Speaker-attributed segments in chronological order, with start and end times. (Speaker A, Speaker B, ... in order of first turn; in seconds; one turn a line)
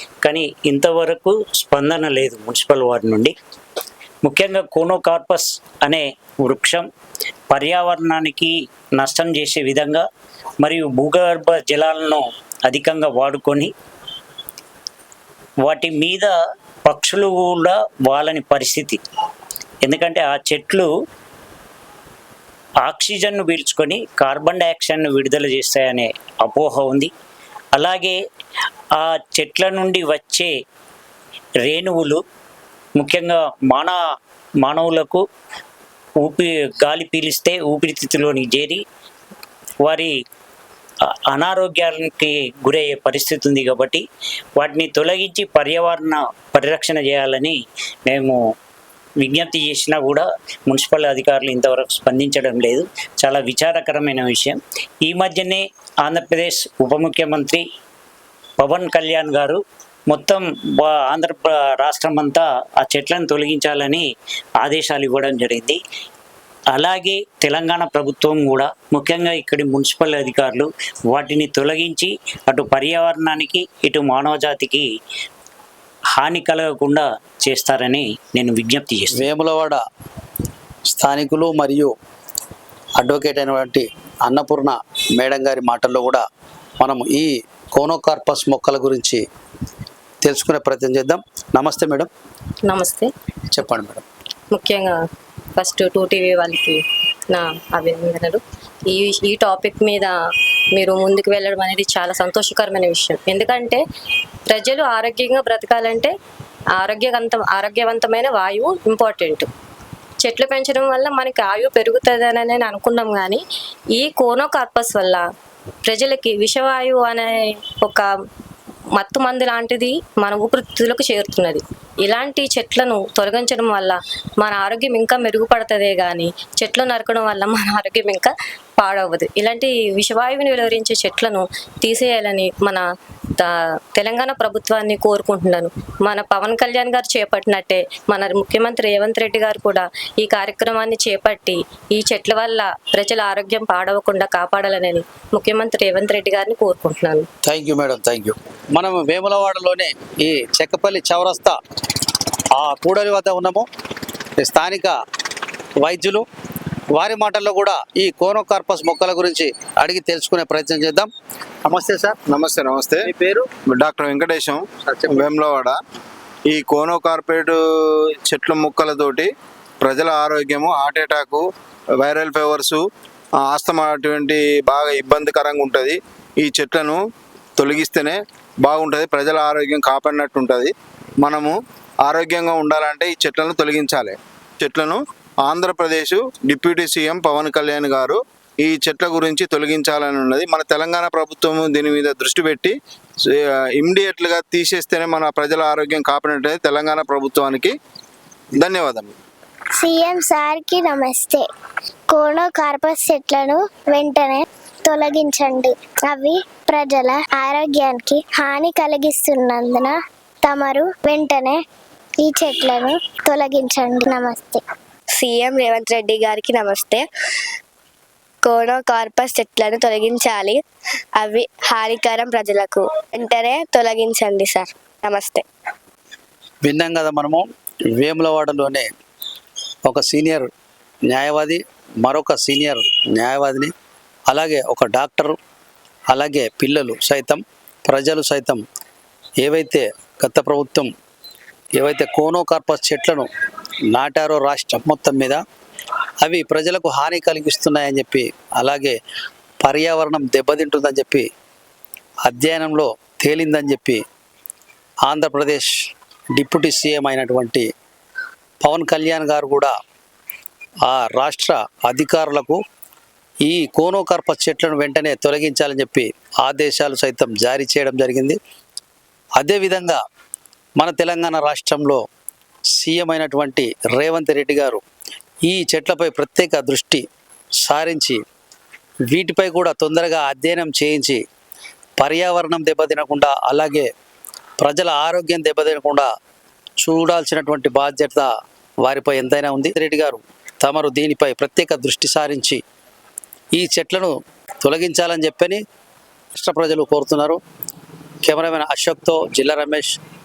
Speaker A: 0.2-3.3
Speaker A: 4.2-6.9
Speaker A: 7.5-10.1
Speaker A: 10.6-13.7
Speaker A: 15.6-16.3
Speaker A: 16.9-19.0
Speaker A: 19.9-20.9
Speaker A: 22.8-27.1
Speaker A: 27.8-28.2
Speaker A: 29.0-30.5
Speaker A: 31.6-32.2
Speaker A: 33.0-34.0
Speaker A: 34.6-35.2
Speaker A: 36.2-38.8
Speaker A: 39.9-40.1
Speaker A: 41.3-44.0
Speaker A: 44.6-47.6
Speaker A: 48.1-48.4
Speaker A: 49.2-57.6
Speaker A: 58.6-64.0
Speaker A: 64.6-65.8
Speaker A: 66.7-74.9
Speaker A: 76.2-79.2
Speaker B: 79.1-79.8
Speaker B: 80.9-81.9
Speaker B: 83.0-86.2
Speaker B: 86.8-89.2
Speaker B: 90.2-92.1
Speaker C: 92.7-93.1
Speaker B: 93.5-94.0
Speaker C: 94.5-95.0
Speaker C: 95.6-100.1
Speaker C: 100.7-103.8
Speaker C: 104.5-106.1
Speaker C: 106.8-109.5
Speaker C: 110.2-113.4
Speaker C: 113.9-115.2
Speaker C: 115.8-118.1
Speaker C: 119.0-132.8
Speaker C: 133.4-147.2
Speaker B: 147.4-151.6
Speaker B: 152.6-153.7
Speaker B: 154.4-154.9
Speaker B: 155.8-156.2
Speaker B: 156.9-161.1
Speaker B: 161.6-162.2
Speaker D: 162.3-163.1
Speaker B: 163.0-163.5
Speaker D: 163.8-165.8
Speaker B: 164.9-165.3
Speaker D: 166.5-167.6
Speaker D: 168.2-169.3
Speaker D: 169.8-171.4
Speaker D: 172.0-172.8
Speaker D: 173.4-177.0
Speaker D: 177.6-192.8
Speaker D: 193.3-197.7
Speaker D: 198.6-199.1
Speaker E: 199.8-201.4
Speaker E: 202.1-211.6
Speaker E: 212.2-214.6
Speaker F: 215.1-217.1
Speaker F: 218.4-220.6
Speaker F: 221.2-225.4
Speaker B: 226.6-228.9
Speaker B: 229.9-230.5
Speaker B: 231.1-233.7
Speaker B: 234.3-235.4
Speaker B: 236.1-238.6
Speaker B: 239.4-240.9
Speaker B: 241.8-243.3
Speaker B: 243.9-245.4
Speaker B: 246.2-249.0
Speaker B: 249.6-251.3
Speaker B: 252.2-254.0
Speaker B: 255.1-255.7
Speaker B: 256.4-257.7
Speaker B: 258.6-259.7
Speaker B: 260.9-262.6
Speaker B: 263.4-268.4
Speaker B: 269.4-270.0
Speaker B: 270.8-272.0
Speaker B: 272.8-274.8
Speaker B: 275.4-277.1
Speaker B: 277.6-278.2
Speaker B: 279.1-281.2
Speaker B: 282.0-283.9
Speaker B: 284.6-286.1
Speaker B: 286.8-288.3
Speaker B: 288.8-292.6
Speaker B: 293.6-295.6
Speaker B: 296.3-297.4
Speaker B: 298.2-300.0